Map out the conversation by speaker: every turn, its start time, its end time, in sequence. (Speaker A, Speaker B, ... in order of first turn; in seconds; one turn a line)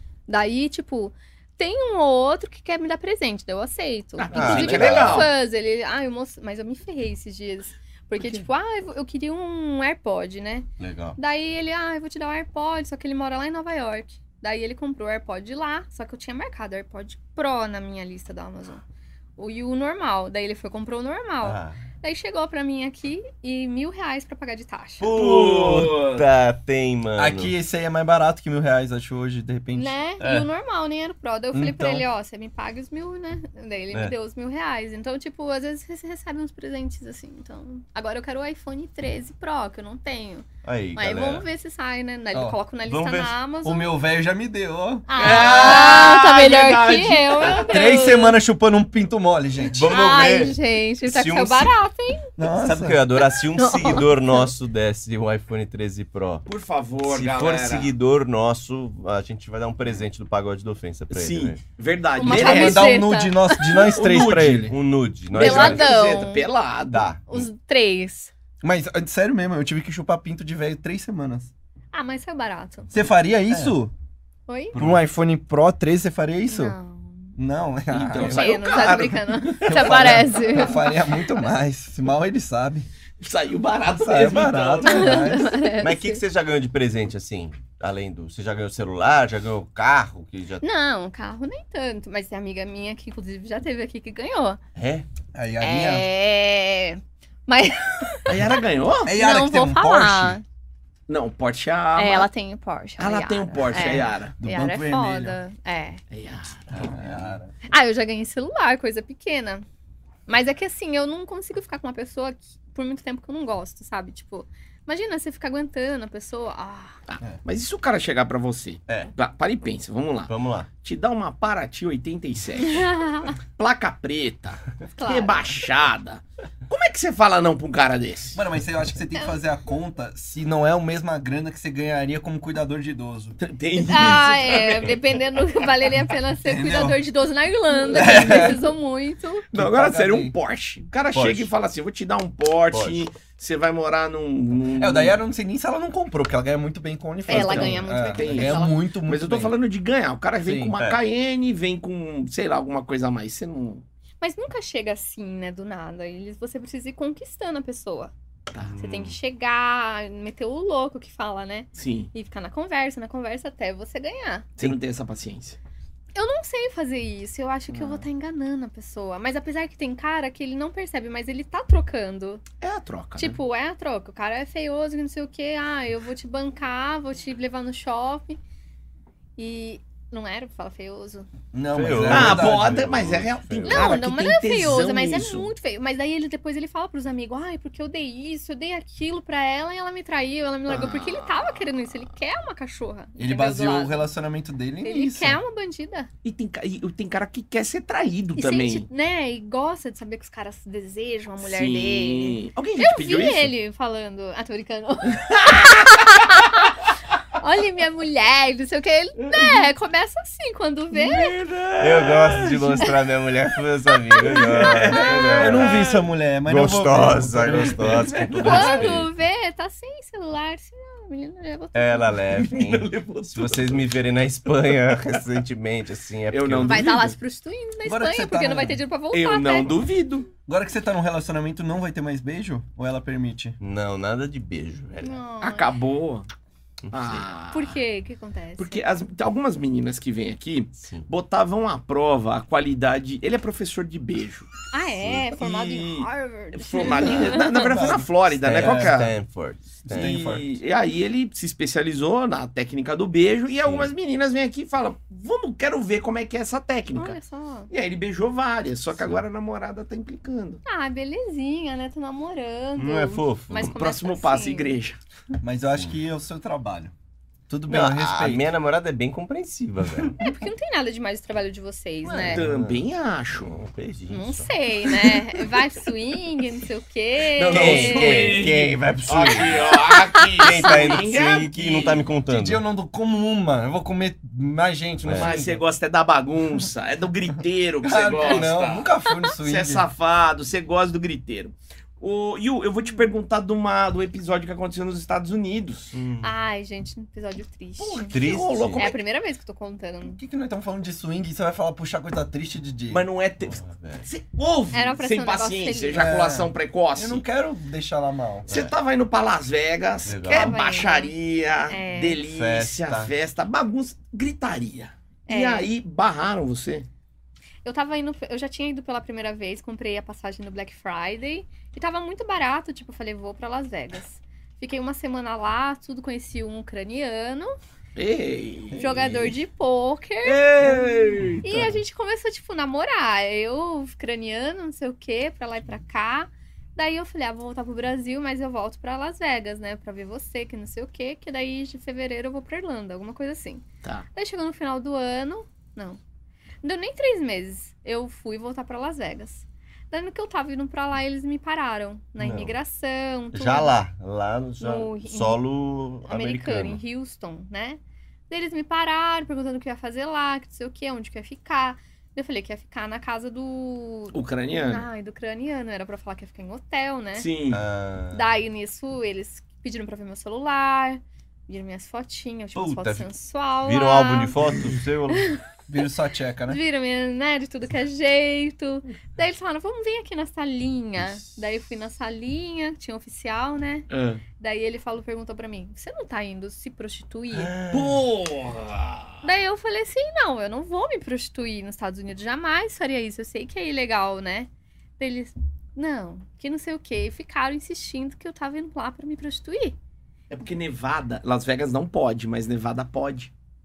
Speaker A: 0.3-18.8
Speaker B: 4.2-5.3
Speaker C: 4.3-5.3
Speaker C: 10.8-11.2
Speaker A: 19.4-25.1
Speaker C: 21.4-21.8
Speaker C: 25.0-27.6
Speaker B: 25.1-26.2
Speaker D: 27.2-29.9
Speaker A: 29.7-43.9
Speaker C: 30.2-30.5
Speaker D: 31.5-32.0
Speaker C: 40.6-41.5
Speaker D: 42.3-42.6
Speaker C: 42.9-43.4
Speaker D: 43.6-45.1
Speaker A: 45.1-48.4
Speaker B: 45.2-47.7
Speaker D: 47.7-49.9
Speaker C: 49.6-51.7
Speaker A: 49.8-52.3
Speaker D: 52.4-53.0
Speaker C: 52.6-56.5
Speaker A: 53.2-54.5
Speaker B: 56.5-57.9
Speaker C: 57.0-61.6
Speaker B: 61.1-62.9
Speaker A: 62.2-64.0
Speaker D: 62.3-64.7
Speaker B: 64.0-64.8
Speaker C: 64.0-65.9
Speaker B: 65.3-67.1
Speaker A: 65.3-66.5
Speaker C: 66.9-67.5
Speaker A: 67.3-68.3
Speaker D: 68.6-71.5
Speaker A: 71.9-72.9
Speaker D: 72.9-73.9
Speaker A: 74.5-74.8
Speaker C: 74.7-75.0
Speaker D: 74.8-76.8
Speaker A: 76.5-77.4
Speaker D: 77.4-78.5
Speaker B: 77.9-80.4
Speaker A: 78.2-80.9
Speaker D: 79.7-82.9
Speaker B: 83.2-85.3
Speaker D: 83.9-85.6
Speaker A: 84.8-86.2
Speaker C: 85.8-90.6
Speaker A: 90.6-94.6
Speaker C: 94.8-95.1
Speaker D: 95.3-96.1
Speaker A: 95.6-100.4
Speaker B: 98.3-99.1
Speaker D: 99.1-100.4
Speaker B: 101.1-102.3
Speaker A: 102.0-106.0
Speaker B: 103.0-104.3
Speaker D: 103.8-105.4
Speaker B: 106.1-107.3
Speaker D: 106.7-107.5
Speaker A: 107.7-109.7
Speaker A: 110.3-117.0
Speaker B: 117.1-128.4
Speaker C: 120.3-120.7
Speaker A: 122.6-123.4
Speaker A: 125.0-125.6
Speaker D: 128.3-133.4
Speaker A: 129.2-129.4
Speaker B: 133.4-135.1
Speaker A: 133.8-139.5
Speaker D: 136.4-137.0
Speaker D: 137.9-138.7
Speaker B: 139.5-145.2
Speaker D: 139.5-140.3
Speaker C: 141.1-141.5
Speaker C: 142.7-143.1
Speaker D: 144.8-149.6
Speaker A: 147.3-148.8
Speaker B: 147.3-153.8
Speaker D: 150.4-150.8
Speaker A: 154.2-158.1
Speaker C: 158.6-159.2
Speaker A: 158.8-164.5
Speaker B: 161.8-162.1
Speaker B: 164.6-165.6
Speaker A: 166.2-172.4
Speaker B: 167.7-168.0
Speaker B: 172.6-173.4
Speaker A: 173.2-178.4
Speaker A: 179.4-181.3
Speaker D: 181.5-182.9
Speaker C: 181.7-183.9
Speaker B: 182.1-185.5
Speaker A: 183.7-194.1
Speaker B: 190.7-191.6
Speaker D: 193.2-195.4
Speaker A: 194.8-196.1
Speaker B: 196.2-198.9
Speaker A: 198.4-206.8
Speaker B: 201.4-203.5
Speaker B: 205.2-206.2
Speaker A: 207.4-211.4
Speaker B: 209.3-209.5
Speaker B: 210.9-212.9
Speaker C: 211.8-215.9
Speaker A: 213.9-215.6
Speaker B: 214.2-216.1
Speaker D: 215.3-218.0
Speaker C: 216.4-219.1
Speaker B: 217.5-219.0
Speaker A: 218.4-222.2
Speaker C: 221.8-226.9
Speaker B: 222.3-223.9
Speaker B: 226.3-227.2
Speaker A: 226.6-229.8
Speaker D: 227.8-228.8
Speaker B: 229.1-230.3
Speaker D: 230.5-233.6
Speaker C: 233.6-235.2
Speaker A: 235.0-235.8
Speaker B: 235.4-236.3
Speaker C: 236.8-237.3
Speaker B: 236.9-237.8
Speaker A: 237.5-238.8
Speaker B: 238.6-244.5
Speaker C: 240.8-241.1
Speaker A: 244.7-247.8
Speaker B: 245.3-249.1
Speaker D: 247.6-249.0
Speaker C: 248.4-250.2
Speaker D: 249.9-250.5
Speaker B: 249.9-257.2
Speaker C: 253.7-253.9
Speaker A: 256.9-257.7
Speaker B: 257.7-260.6
Speaker C: 259.0-259.2
Speaker A: 260.7-264.8
Speaker C: 262.8-263.8
Speaker B: 263.7-265.0
Speaker D: 265.4-266.9
Speaker D: 267.5-268.4
Speaker C: 267.7-270.2
Speaker A: 270.2-272.4
Speaker B: 272.1-273.6
Speaker C: 272.2-272.9
Speaker C: 273.4-274.5
Speaker A: 274.1-278.4
Speaker B: 277.4-282.1
Speaker C: 277.5-279.8
Speaker C: 280.4-282.6
Speaker A: 280.5-280.9
Speaker D: 282.3-285.6
Speaker C: 285.0-285.4
Speaker B: 285.1-295.9
Speaker D: 287.8-289.8
Speaker C: 295.9-296.3
Speaker A: 296.2-298.2
Speaker B: 297.8-299.0
Speaker C: 298.1-298.8
Speaker A: 298.7-300.2
Speaker D: 300.1-303.1
Speaker B: 302.9-307.2
Speaker C: 303.5-304.1
Speaker A: 304.7-306.1
Speaker D: 305.9-308.5
Speaker C: 308.5-308.7
Speaker B: 308.5-316.9
Speaker C: 310.1-310.6
Speaker A: 310.2-311.1
Speaker A: 311.7-312.2
Speaker C: 312.3-313.1
Speaker A: 315.3-315.7
Speaker A: 317.6-327.6
Speaker B: 328.0-329.1
Speaker A: 328.7-330.7
Speaker B: 330.2-331.7
Speaker A: 331.4-346.0
Speaker A: 346.6-353.7
Speaker C: 352.2-352.6
Speaker C: 353.3-356.8
Speaker A: 354.6-355.4
Speaker A: 356.0-367.3
Speaker B: 364.1-364.9
Speaker B: 367.1-367.6
Speaker C: 367.5-368.2
Speaker A: 368.1-374.4
Speaker C: 372.6-373.1
Speaker C: 373.6-375.3
Speaker A: 375.1-375.4
Speaker D: 375.7-376.6
Speaker A: 376.5-387.5
Speaker B: 383.9-384.2
Speaker C: 387.3-388.0
Speaker B: 387.7-389.2
Speaker A: 389.2-399.8
Speaker B: 400.3-403.3